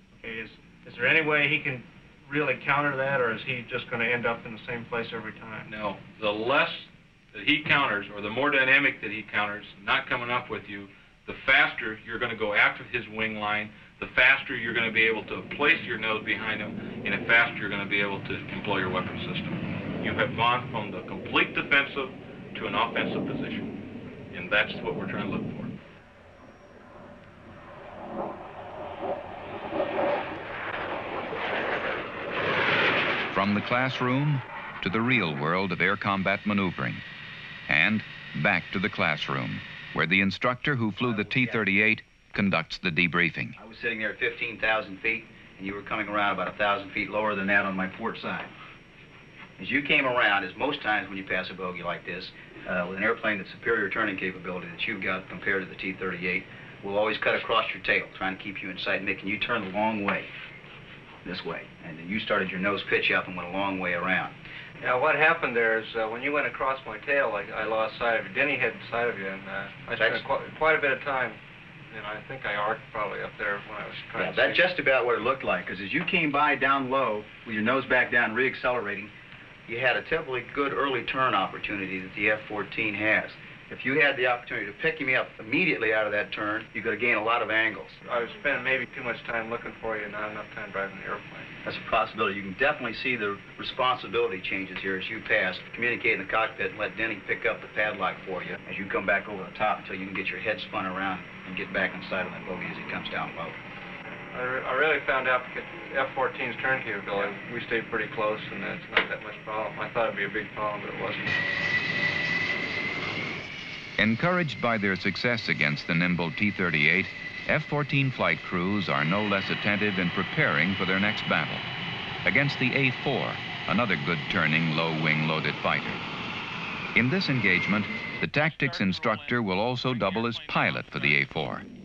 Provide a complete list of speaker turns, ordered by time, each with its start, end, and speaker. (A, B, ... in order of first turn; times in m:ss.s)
0:00.2-0:05.7 A
0:05.6-0:23.7 B
0:24.3-0:25.7 B
0:33.3-0:37.0 C
0:37.7-0:43.6 C
0:41.0-0:41.6 D
0:43.6-0:48.5 D
0:49.6-1:00.3 D
1:01.2-1:04.3 D
1:04.8-1:14.7 A
1:10.0-1:10.3 D
1:14.1-1:19.1 D
1:19.7-1:28.0 D
1:28.0-1:31.5 A
1:31.6-1:43.5 D
1:44.3-1:51.3 A
1:54.0-2:01.6 C
2:02.2-2:06.0 C
2:06.9-2:11.6 C
2:08.4-2:11.2 B